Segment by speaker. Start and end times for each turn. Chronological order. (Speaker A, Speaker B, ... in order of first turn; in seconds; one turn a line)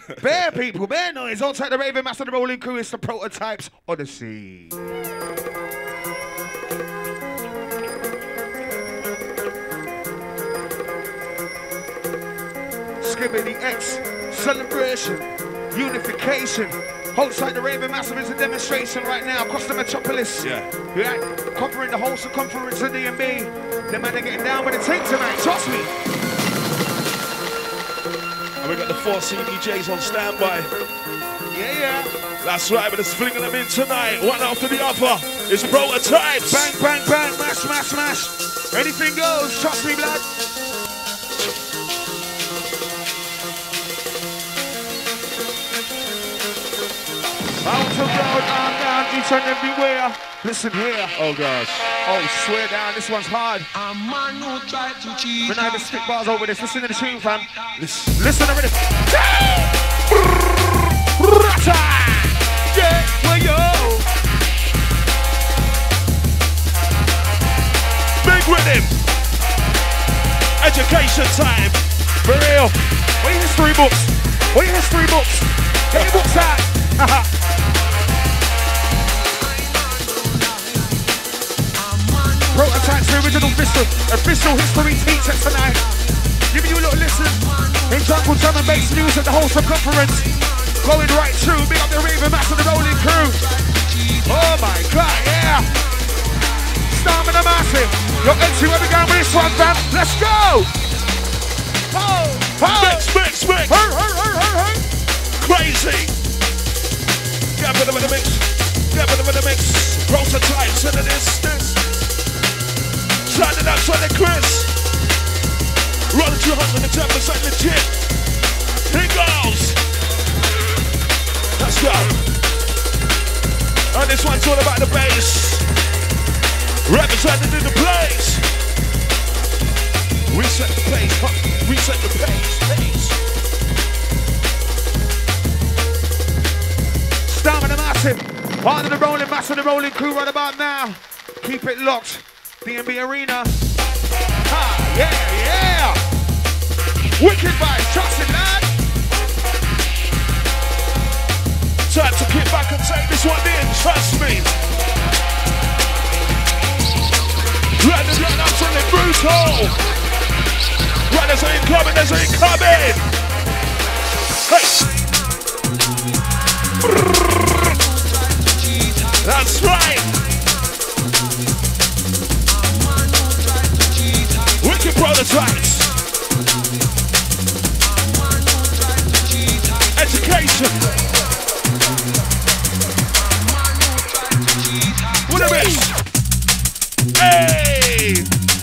Speaker A: 0.1-0.4
Speaker B: 0.2-4.8
Speaker B: 13.0-25.9
Speaker A: 20.4-20.7
Speaker A: 28.6-30.7
Speaker B: 31.5-32.1
Speaker A: 32.4-36.7
Speaker B: 36.5-40.2
Speaker B: 47.6-51.1
Speaker A: 51.1-51.9
Speaker B: 52.0-53.7
Speaker C: 53.9-55.4
Speaker B: 55.4-57.5
Speaker A: 57.8-58.2
Speaker B: 58.1-59.8
Speaker B: 61.0-64.1
Speaker A: 68.2-69.0
Speaker A: 70.6-71.8
Speaker B: 72.2-77.3
Speaker A: 75.9-76.5
Speaker B: 82.5-85.9
Speaker B: 86.5-93.5
Speaker B: 94.2-95.7
Speaker B: 96.9-100.7
Speaker B: 101.9-103.1
Speaker A: 102.6-103.9
Speaker B: 103.7-104.8
Speaker A: 105.4-106.1
Speaker A: 107.5-111.8
Speaker A: 113.3-114.7
Speaker A: 116.1-117.9
Speaker A: 118.9-119.8
Speaker A: 121.6-122.2
Speaker A: 123.9-125.7
Speaker A: 126.9-128.5
Speaker A: 130.3-133.2
Speaker B: 137.3-143.5
Speaker B: 144.5-146.0
Speaker B: 147.2-148.7
Speaker A: 151.9-154.5
Speaker A: 157.8-159.8
Speaker A: 161.1-163.1
Speaker A: 164.4-164.9
Speaker A: 169.2-170.2
Speaker A: 174.6-175.9
Speaker C: 178.4-179.7
Speaker A: 179.9-180.8
Speaker C: 183.8-185.0
Speaker A: 185.2-186.0
Speaker A: 187.2-188.3